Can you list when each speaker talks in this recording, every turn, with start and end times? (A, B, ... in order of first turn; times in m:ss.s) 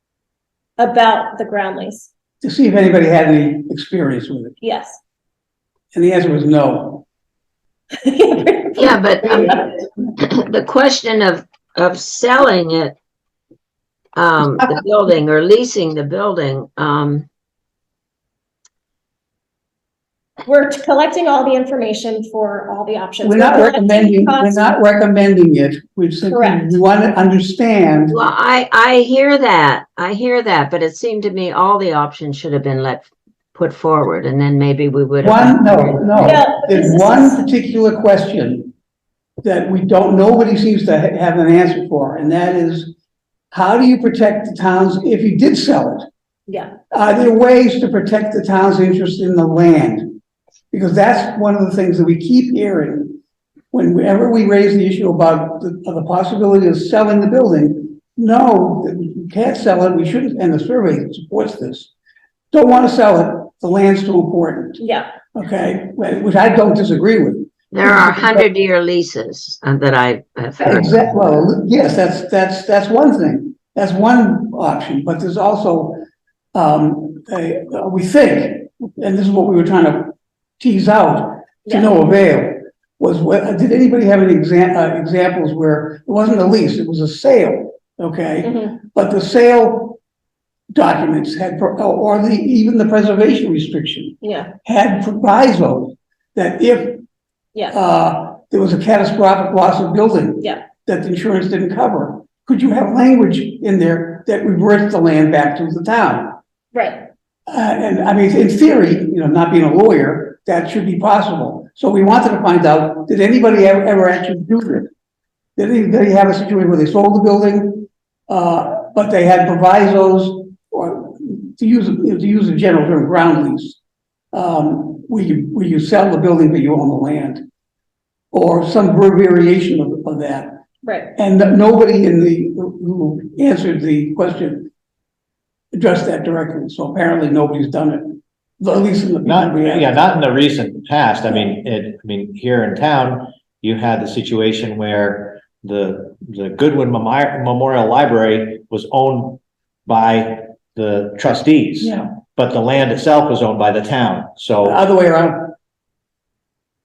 0:00.8-0:02.1 A
0:02.4-0:04.6 B
0:04.6-0:05.0 A
0:05.9-0:07.0 B
0:08.0-0:09.5 A
0:08.8-0:09.6 C
0:10.2-0:12.9 C
0:14.2-0:17.3 C
0:20.4-0:24.7 A
0:23.2-0:28.2 B
0:26.3-0:26.8 A
0:28.1-0:36.4 C
0:35.2-0:38.7 B
0:36.2-0:37.4 A
0:39.4-0:42.9 B
0:43.5-0:46.0 B
0:46.5-0:46.7 A
0:46.9-0:50.2 B
0:50.7-0:53.2 B
0:53.7-1:01.9 B
1:02.5-1:04.8 B
1:04.8-1:05.1 A
1:05.3-1:08.5 B
1:07.7-1:11.0 C
1:10.6-1:16.0 B
1:16.5-1:30.0 B
1:28.4-1:28.8 A
1:30.7-1:37.0 B
1:34.2-1:34.5 A
1:37.7-1:46.4 B
1:40.4-1:40.6 A
1:46.7-1:47.0 A
1:47.5-1:54.9 B
1:55.6-2:03.8 B
2:04.3-2:07.4 B
2:08.3-2:10.6 B
2:10.8-2:11.2 A
2:11.2-2:14.7 B
2:15.7-2:19.9 B
2:19.2-2:34.8 D
2:31.8-2:32.1 B
2:34.6-2:35.5 B